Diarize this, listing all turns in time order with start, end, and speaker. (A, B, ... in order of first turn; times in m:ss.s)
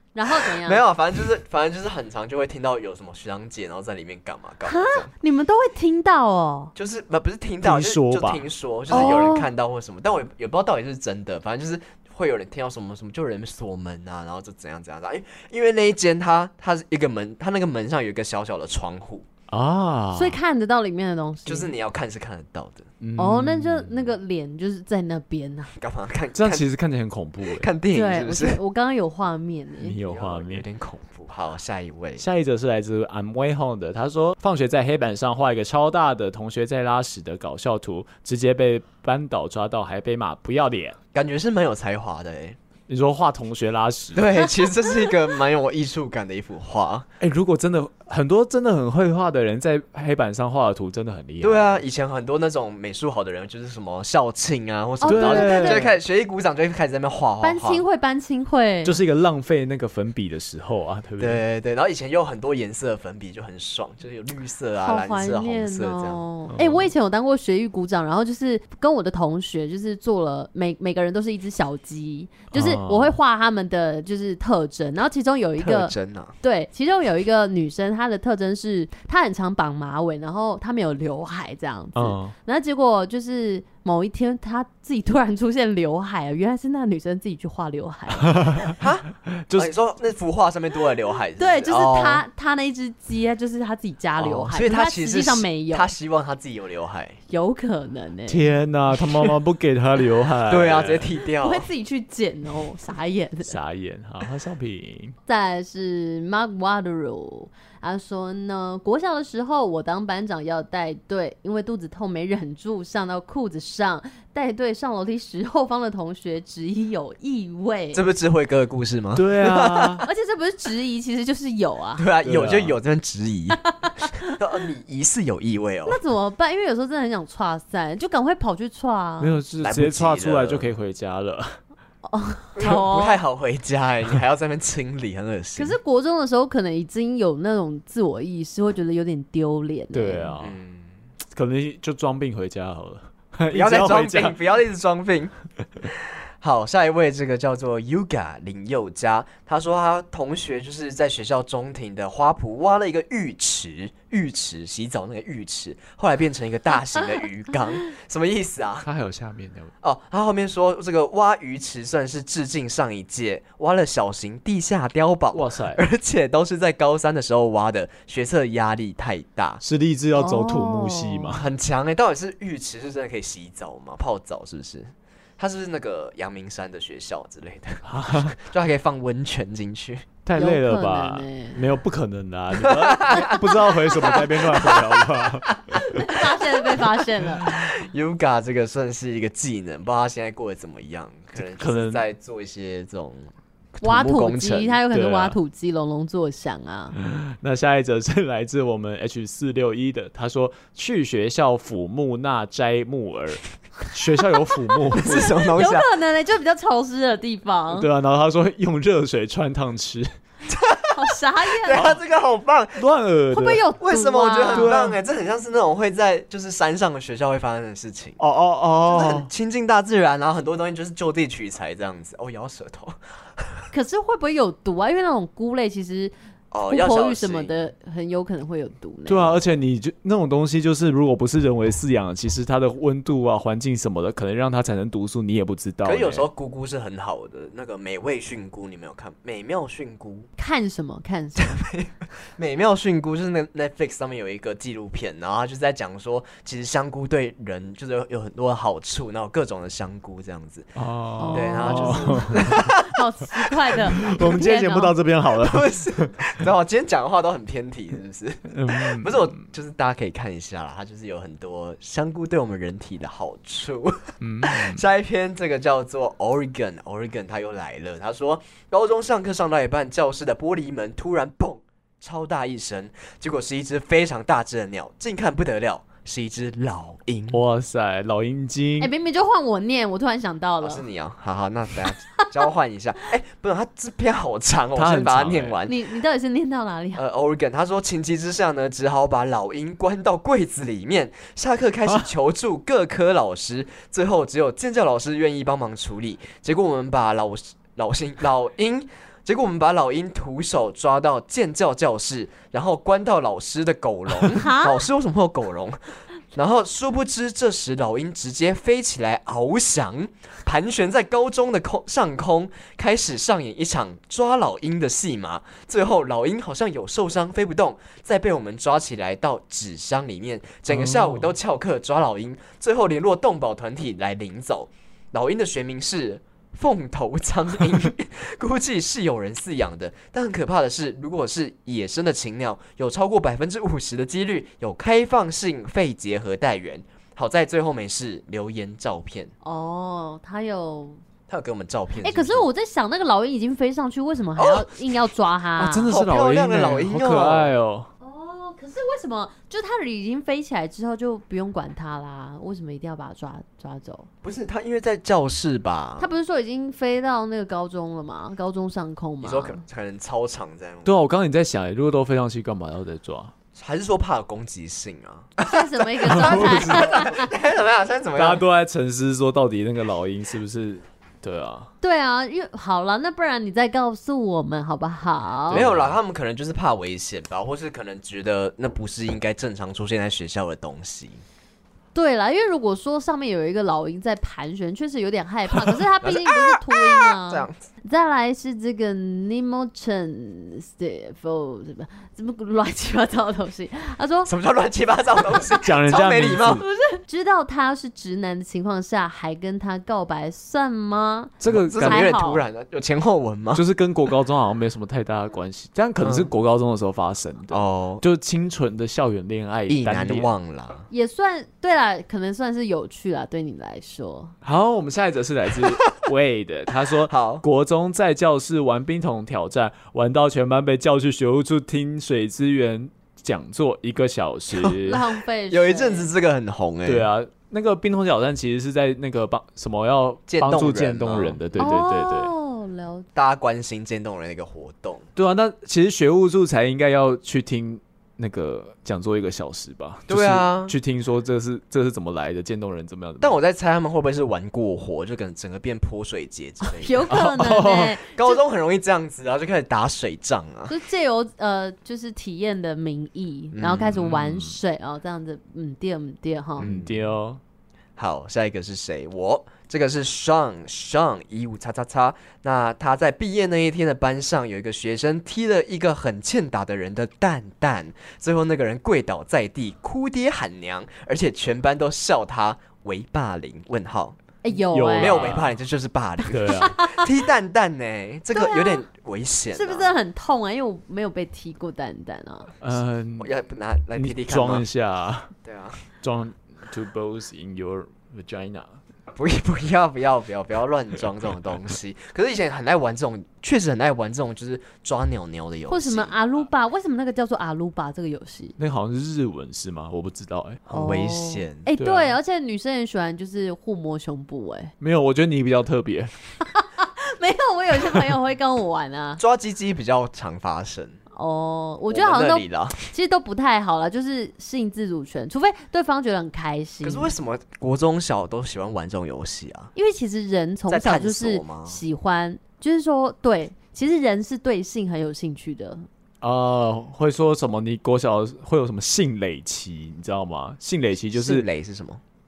0:00.1-0:00.8 A
0:00.6-0:05.1 B
0:04.6-0:06.7 A
0:06.8-0:19.2 B
0:07.6-0:09.2 C
0:08.9-0:09.5 A
0:19.5-0:20.4 C
0:20.1-0:21.7 A
0:21.4-0:22.9 B
0:23.0-0:24.1 C
0:23.2-0:25.7 A
0:25.8-0:26.7 B
0:26.3-0:27.7 C
0:27.5-0:28.6 B
0:27.9-0:30.0 A
0:29.8-0:30.6 C
0:30.0-0:32.2 B
0:32.2-0:41.0 C
0:41.1-0:42.6 B
0:42.9-0:44.3 C
0:44.1-0:47.1 B
0:47.2-0:51.8 C
0:51.4-0:57.8 B
0:55.0-0:55.8 A
0:55.0-0:55.9 C
0:57.4-0:59.0 A
0:58.8-1:01.4 C
1:01.2-1:06.2 B
1:04.8-1:28.7 A
1:06.5-1:06.9 C
1:12.5-1:13.1 C
1:15.6-1:16.3 B
1:22.0-1:22.3 C
1:28.2-1:29.7 C
1:28.8-1:32.2 B
1:31.4-1:35.9 A
1:34.2-1:37.2 B
1:37.3-1:38.5 A
1:38.3-1:41.1 C
1:40.5-1:41.7 B
1:41.4-1:43.5 A
1:43.4-1:45.1 C
1:45.3-1:58.0 A
1:57.9-2:00.1 B
1:59.2-2:00.0 C
2:00.0-2:02.0 A
2:02.0-2:03.6 B
2:02.2-2:02.8 C
2:03.6-2:04.3 A
2:04.2-2:06.0 B
2:05.9-2:09.4 A
2:09.2-2:11.6 C
2:09.6-2:10.7 B
2:12.0-2:13.2 A
2:12.6-2:15.8 B
2:15.6-2:20.3 A
2:19.9-2:20.6 C
2:20.4-2:21.0 B
2:21.3-2:24.4 C
2:23.5-2:38.9 B
2:38.8-2:39.7 C
2:39.8-2:49.6 B
2:45.3-2:45.8 C
2:49.6-2:51.4 C
2:50.2-2:51.3 A
2:51.3-3:00.1 B
2:57.8-2:58.4 C
3:00.2-3:05.9 C
3:00.3-3:01.6 A
3:02.6-3:05.1 B
3:05.9-3:07.5 A
3:07.4-3:14.8 B
3:11.4-3:12.0 C
3:13.8-3:17.0 A
3:14.9-3:15.4 C
3:16.9-3:25.3 C
3:25.0-3:25.9 B
3:25.0-3:27.9 A
3:27.7-3:30.1 C
3:30.5-3:31.0 B
3:30.9-3:31.9 A
3:31.6-3:32.8 B
3:32.8-3:33.7 C
3:33.3-3:34.8 A
3:33.8-3:38.2 B
3:34.5-3:34.9 C
3:38.2-3:39.3 C
3:38.8-3:43.6 B
3:43.7-3:46.1 A
3:46.5-3:47.5 B
3:46.7-3:49.4 A
3:49.1-3:56.3 C
3:55.8-4:00.3 B
4:00.4-4:01.6 A
4:01.4-4:10.7 B
4:10.8-4:12.7 C
4:11.2-4:14.9 A
4:11.3-4:13.0 B
4:14.0-4:16.1 C
4:15.4-4:37.4 B
4:18.5-4:19.3 C
4:24.2-4:24.8 C
4:37.3-4:38.9 C
4:38.8-4:40.8 A
4:40.6-4:45.8 B
4:44.8-4:45.6 C
4:45.6-4:47.0 A
4:47.0-5:05.8 B
5:04.3-5:04.8 A
5:06.3-5:39.3 B
5:20.7-5:21.3 C
5:39.4-5:41.0 A
5:41.3-5:42.5 B
5:42.0-5:45.9 A
5:44.4-5:44.7 B
5:45.6-5:47.9 C
5:45.9-5:47.5 B
5:48.0-5:54.1 A
5:54.2-5:56.1 B
5:56.0-5:59.6 A
5:59.2-6:00.9 B
6:00.8-6:03.3 C
6:03.5-6:08.4 B
6:05.4-6:07.3 A
6:06.1-6:06.8 C
6:08.2-6:11.7 C
6:11.8-6:15.6 A
6:15.5-6:16.0 C
6:15.5-6:21.2 B
6:21.9-6:34.3 A
6:26.0-6:27.6 B
6:34.2-6:36.6 B
6:35.5-6:36.6 C
6:36.6-6:42.4 A
6:41.4-6:42.1 C
6:41.4-6:43.6 B
6:43.5-6:50.3 C
6:46.0-6:46.3 B
6:47.5-6:48.0 B
6:49.7-6:50.8 B
6:50.9-6:54.3 A
6:54.4-7:05.0 C
6:57.0-6:57.4 B
7:04.6-7:06.1 A
7:05.5-7:07.1 B
7:06.8-7:12.3 C
7:10.3-7:11.7 B
7:11.6-7:13.0 A
7:13.2-7:15.1 B
7:15.2-7:23.4 C
7:20.1-7:20.7 B
7:23.2-7:30.7 B
7:26.6-7:28.4 A
7:30.7-7:36.7 A
7:33.5-7:34.0 B
7:33.9-7:34.6 C
7:36.6-7:37.1 B
7:36.6-7:37.4 C
7:38.0-7:54.2 B
7:54.4-7:55.3 A
7:54.7-7:55.5 C
7:55.0-7:59.9 B
7:56.3-7:56.8 C
7:56.5-7:57.1 A
7:58.3-7:58.8 A
7:59.5-8:02.5 A
8:02.6-8:03.3 C
8:03.2-8:04.7 B
8:03.9-8:05.3 C
8:05.4-8:05.8 B
8:06.0-8:08.8 C
8:09.1-8:16.2 B
8:15.7-8:18.6 A
8:18.6-8:20.7 C
8:20.7-8:21.7 B
8:20.7-8:24.7 A
8:21.8-8:22.2 C
8:24.8-8:26.1 C
8:26.5-8:29.2 A
8:29.2-8:31.0 B
8:31.1-8:37.1 A
8:31.9-8:32.9 B
8:36.8-8:39.7 B
8:39.7-8:45.9 A
8:40.7-8:41.8 B
8:46.2-8:51.4 C
8:51.1-8:52.0 B